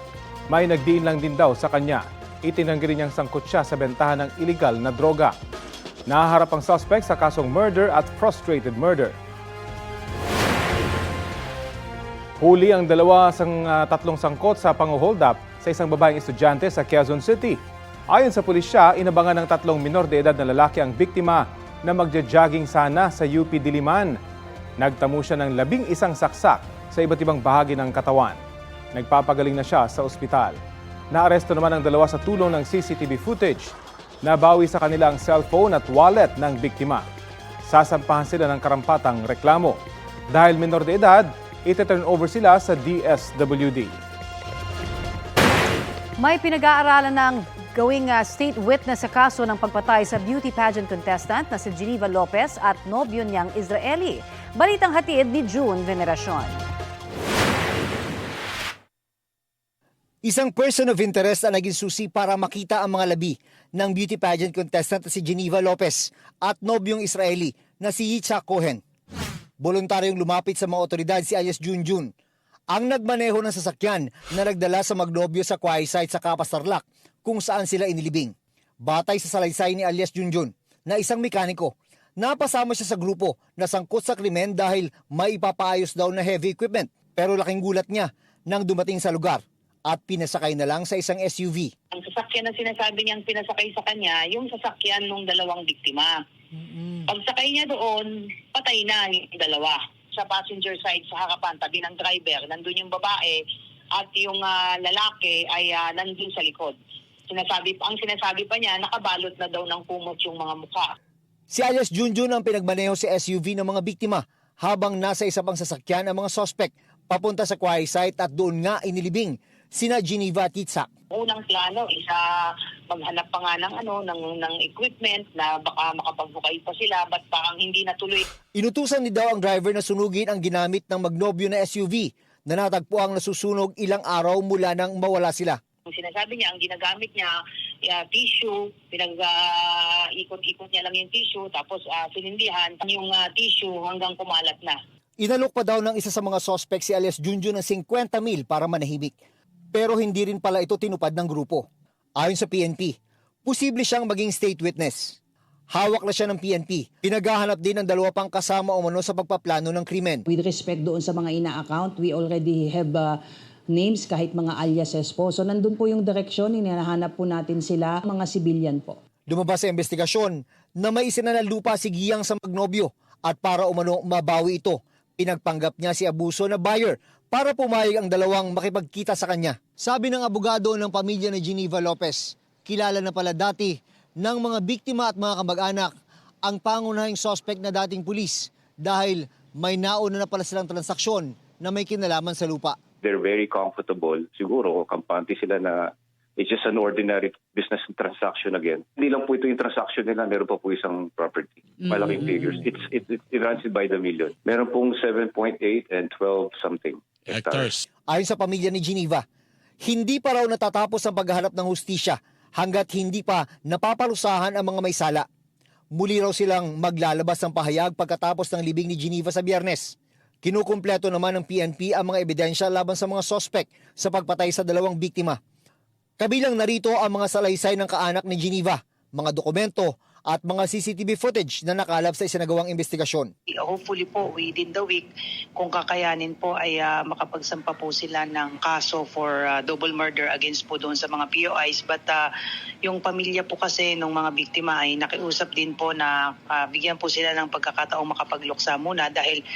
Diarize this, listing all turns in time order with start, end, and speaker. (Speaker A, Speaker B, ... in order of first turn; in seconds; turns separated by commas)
Speaker A: 0.5-5.3, Speaker A: 6.1-9.2, Speaker A: 12.4-17.6, Speaker A: 18.1-24.1, Speaker A: 24.8-28.4, Speaker A: 28.9-30.6, Speaker A: 31.1-33.7, Speaker A: 34.2-37.0, Speaker A: 37.7-39.8, Speaker A: 40.3-43.9, Speaker B: 46.2-56.6, Speaker C: 60.2-68.8, Speaker C: 69.6-72.1, Speaker C: 72.7-78.3, Speaker C: 78.8-91.7, Speaker D: 91.9-96.2, Speaker D: 96.7-103.4, Speaker D: 104.0-106.8, Speaker D: 107.3-110.9, Speaker C: 111.5-120.9, Speaker D: 121.1-122.2, Speaker D: 122.9-128.2, Speaker C: 128.6-135.6, Speaker D: 135.9-137.3, Speaker D: 137.9-144.8, Speaker C: 145.2-149.1, Speaker C: 149.7-151.6, Speaker C: 152.2-152.9, Speaker C: 153.4-155.2, Speaker C: 155.7-160.2, Speaker E: 160.3-163.2, Speaker E: 163.7-169.0, Speaker C: 169.3-185.9, Speaker C: 186.4-192.8, Speaker F: 193.0-207.8, Speaker C: 208.1-209.2, Speaker C: 209.8-215.2, Speaker C: 215.9-225.4, Speaker C: 226.2-233.3, Speaker G: 233.6-235.1, Speaker G: 235.6-242.2, Speaker G: 242.9-249.4